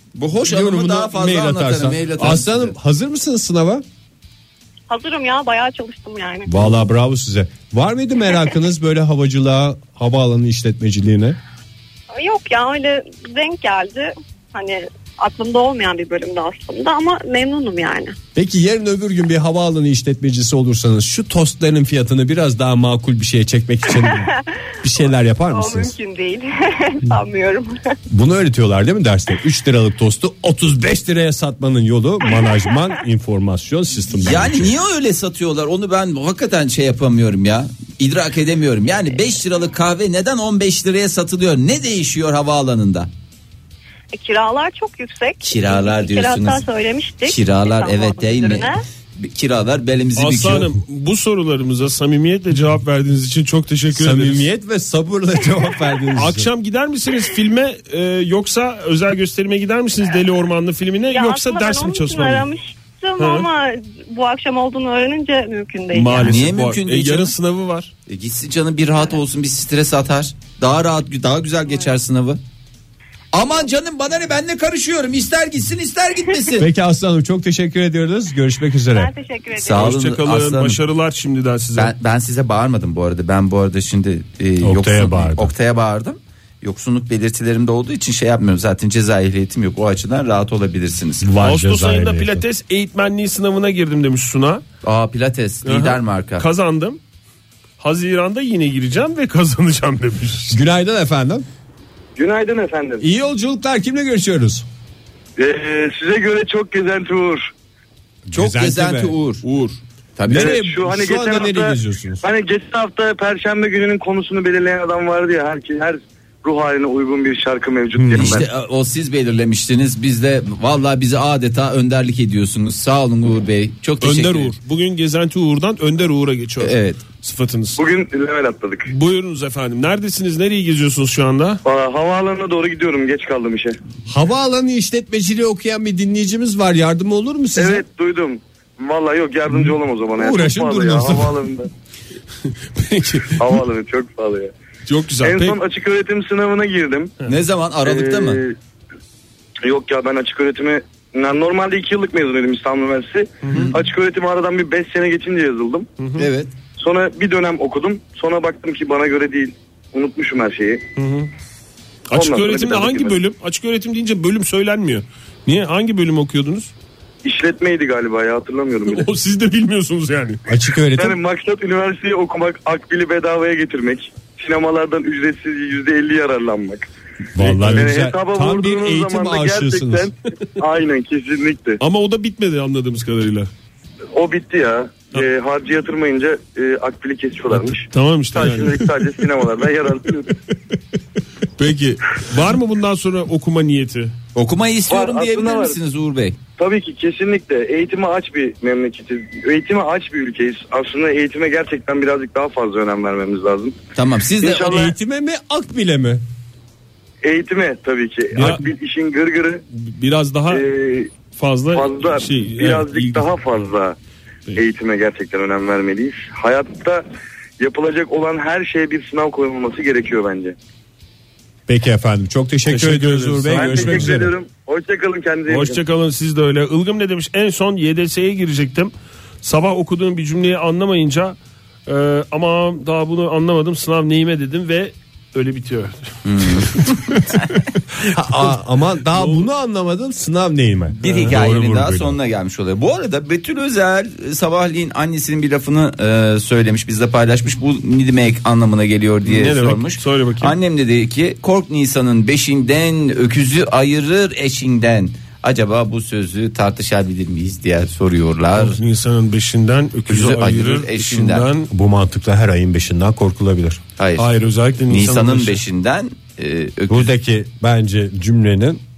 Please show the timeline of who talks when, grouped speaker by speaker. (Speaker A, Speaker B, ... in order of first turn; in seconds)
Speaker A: 0.1-2.8, 34.2-43.1, 45.4-46.6, 47.2-50.7, 66.2-67.3, 68.1-72.4, 73.3-76.7, 79.5-80.8, 81.8-91.3, 94.8-96.5, 108.3-109.4, 110.2-110.6, 118.1-124.5, 126.6-127.0, 147.3-148.4, 156.2-156.5, 194.3-196.4, 204.0-204.8, 236.2-236.8, 241.0-258.8, 260.1-261.5, 264.0-264.3, 264.9-267.1
Speaker B: 0.5-3.8, 6.5-11.4, 18.4-24.3, 24.8-25.9, 28.1-34.7, 53.9-56.5, 76.6-79.1, 84.6-85.5, 91.2-92.4, 100.5-101.5, 103.0-104.7, 108.3-109.2, 110.3-112.2, 118.0-118.4, 134.1-137.8, 139.5-141.4, 170.5-171.2, 177.3-180.1, 204.6-206.2, 221.7-224.3, 238.1-242.2, 261.7-263.8, 266.9-268.8
Speaker C: 4.9-6.5, 12.1-18.2, 23.9-24.4, 25.5-28.0, 44.1-48.8, 61.1-66.4, 79.0-79.6
Speaker D: 50.2-54.5, 56.1-62.5, 63.2-63.5, 65.9-67.9, 79.6-81.9, 91.4-94.6, 95.7-97.0, 97.8-100.6, 109.5-109.8, 124.0-127.8, 128.9-131.6, 142.8-143.6, 144.9-145.6, 153.4-153.7, 156.0-156.3, 161.0-161.3, 162.1-166.7, 168.9-170.4, 177.4-177.9, 181.8-183.5, 187.5-189.2, 191.6-194.2, 208.3-208.7, 209.8-210.7, 211.3-213.3, 222.7-224.3, 225.5-237.3, 239.1-239.4, 241.0-241.3, 249.2-250.5, 258.6-261.7, 264.2-265.6
Speaker E: 102.2-103.0, 105.4-107.5, 110.3-118.5, 127.8-128.9, 131.7-133.8, 137.6-141.7, 143.4-144.5, 145.2-147.2, 147.8-148.6, 149.6-155.9, 156.8-160.8, 162.1-163.2, 167.2-169.1, 171.0-176.9, 177.8-181.8, 184.1-190.3, 194.9-195.8, 196.6-203.8, 204.4-204.9, 207.2-209.6, 210.5-211.1, 211.7-214.0, 214.6-217.0, 217.6-220.6, 223.5-225.8